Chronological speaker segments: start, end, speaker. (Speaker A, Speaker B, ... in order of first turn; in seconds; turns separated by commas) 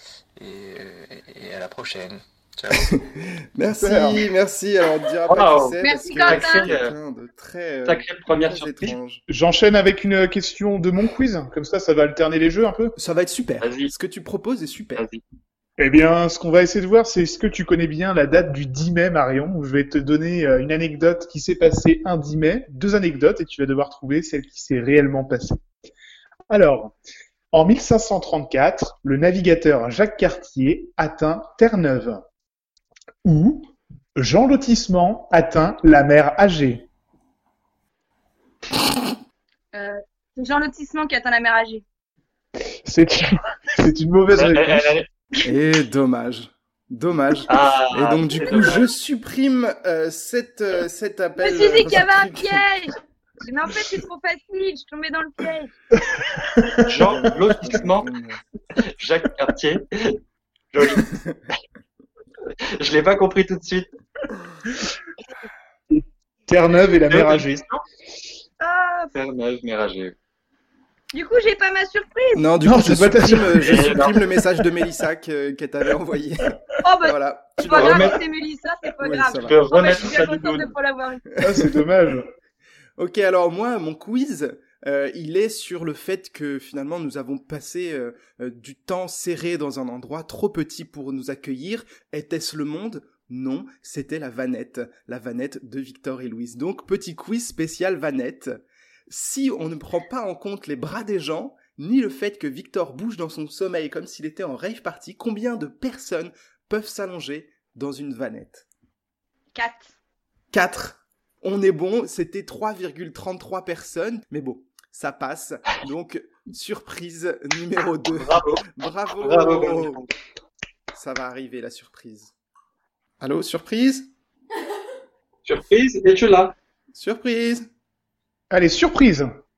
Speaker A: 0.4-2.9, Speaker B: 2.8-9.2, Speaker C: 3.8-4.2, Speaker D: 5.3-6.9, Speaker E: 5.8-6.6, Speaker D: 7.8-8.9, Speaker C: 8.8-12.9, Speaker B: 13.0-15.0, Speaker D: 13.6-13.9, Speaker C: 15.8-25.6, Speaker C: 26.5-26.9, Speaker C: 27.5-32.2, Speaker C: 33.2-36.8, Speaker E: 39.7-41.8, Speaker C: 42.8-44.9, Speaker D: 44.3-45.1, Speaker B: 45.4-52.6, Speaker D: 47.5-48.9, Speaker E: 51.4-55.7, Speaker C: 56.3-57.1, Speaker D: 56.9-58.1, Speaker B: 57.0-58.5, Speaker D: 58.8-60.2, Speaker D: 60.7-61.1, Speaker B: 61.0-61.4, Speaker D: 62.8-63.9, Speaker C: 65.9-67.6, Speaker D: 67.1-67.8, Speaker E: 68.6-69.1, Speaker D: 69.1-70.1, Speaker E: 71.1-72.5, Speaker B: 72.3-78.2, Speaker C: 72.6-74.1, Speaker D: 73.6-74.2, Speaker E: 76.8-81.2, Speaker D: 77.7-78.2, Speaker B: 79.0-79.6, Speaker D: 79.5-80.7, Speaker C: 81.4-82.3, Speaker B: 83.0-98.5, Speaker B: 99.1-108.7, Speaker E: 109.5-109.9, Speaker B: 110.5-120.0, Speaker D: 118.1-118.6, Speaker D: 119.2-120.1, Speaker B: 120.9-122.3, Speaker B: 123.2-124.1, Speaker D: 125.5-126.5, Speaker B: 126.9-127.7, Speaker C: 128.5-129.3